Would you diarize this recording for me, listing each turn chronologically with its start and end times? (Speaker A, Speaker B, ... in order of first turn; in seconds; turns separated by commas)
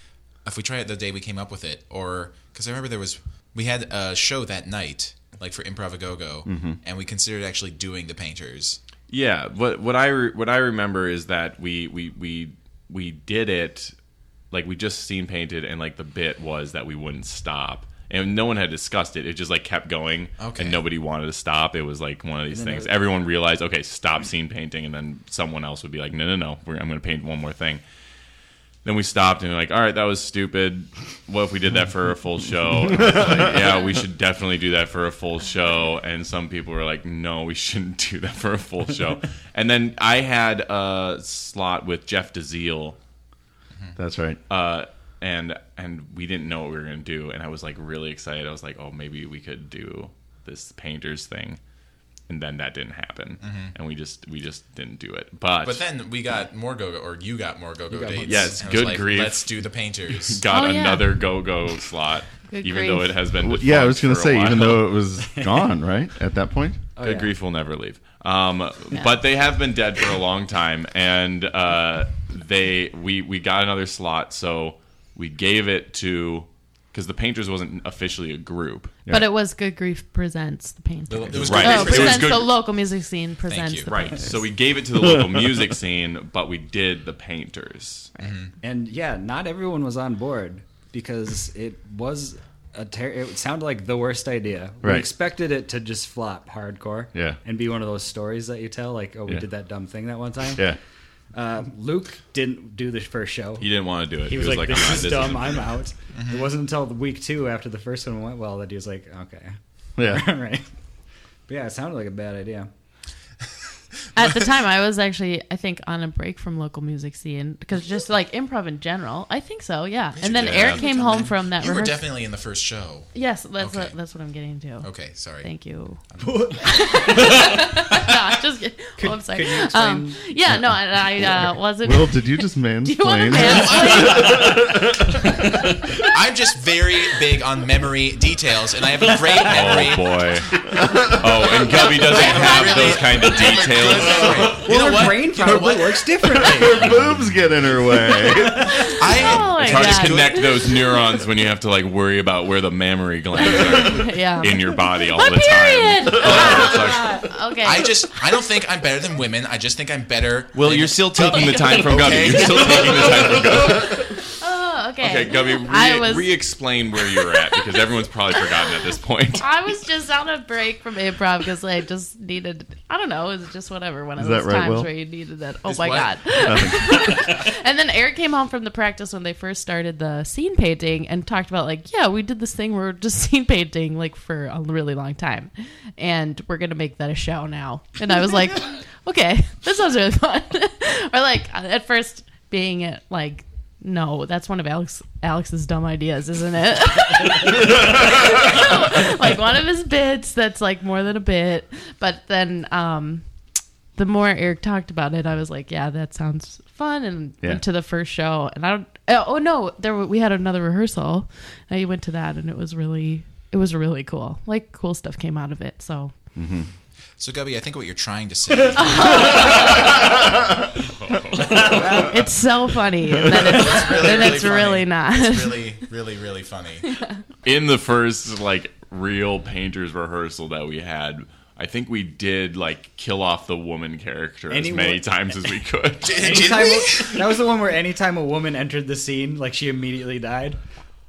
Speaker A: 0.4-8.8, Speaker B: 6.5-6.8, Speaker C: 9.1-13.9, Speaker C: 14.5-27.8, Speaker A: 20.4-20.8, Speaker D: 22.5-22.9, Speaker C: 28.8-43.0, Speaker B: 32.9-33.5, Speaker B: 44.0-44.4, Speaker C: 44.5-51.6, Speaker C: 52.3-55.8, Speaker A: 53.4-53.7, Speaker A: 55.6-60.4, Speaker D: 57.9-59.0, Speaker C: 58.2-59.6, Speaker C: 60.2-64.9, Speaker E: 60.5-61.1, Speaker E: 62.5-63.2, Speaker B: 63.4-66.8, Speaker D: 65.2-65.6, Speaker D: 67.0-67.3, Speaker C: 67.0-79.0, Speaker E: 79.1-84.4, Speaker A: 81.1-82.5, Speaker C: 81.3-82.5, Speaker A: 83.5-83.9, Speaker C: 83.9-88.1, Speaker B: 85.1-85.6, Speaker A: 88.2-88.5, Speaker D: 88.6-100.7, Speaker B: 94.8-95.1, Speaker B: 97.1-97.4, Speaker D: 101.3-103.7, Speaker C: 103.6-105.7, Speaker D: 104.2-110.6, Speaker A: 106.1-106.5, Speaker B: 110.0-110.3, Speaker D: 111.5-112.7, Speaker E: 114.1-122.1, Speaker A: 120.2-124.0, Speaker C: 120.3-120.8, Speaker E: 123.1-124.9, Speaker A: 124.8-125.5, Speaker E: 125.4-126.0, Speaker A: 126.1-126.5, Speaker D: 126.2-127.6, Speaker E: 126.5-134.8, Speaker D: 129.0-130.2, Speaker B: 131.8-135.3, Speaker A: 133.4-140.2, Speaker C: 139.4-144.5, Speaker B: 140.7-141.2, Speaker A: 141.7-146.7, Speaker E: 142.0-143.4, Speaker D: 144.4-147.3, Speaker B: 146.3-149.0, Speaker E: 148.1-151.0, Speaker A: 148.8-150.7, Speaker C: 149.3-157.2, Speaker E: 153.4-158.1, Speaker A: 157.6-163.8, Speaker C: 160.5-164.2, Speaker E: 161.2-166.3, Speaker C: 165.0-169.5, Speaker E: 167.1-167.8, Speaker E: 169.4-203.2, Speaker B: 174.2-174.9, Speaker A: 175.7-176.2, Speaker B: 176.4-177.4, Speaker E: 203.9-216.1, Speaker B: 216.3-216.7, Speaker A: 217.2-220.1, Speaker E: 218.7-219.9, Speaker C: 220.8-221.8, Speaker D: 221.6-222.1, Speaker E: 221.7-225.6, Speaker A: 223.4-227.0, Speaker E: 226.9-227.2, Speaker C: 227.4-236.3, Speaker D: 234.5-235.1, Speaker A: 236.0-237.3, Speaker D: 236.1-240.6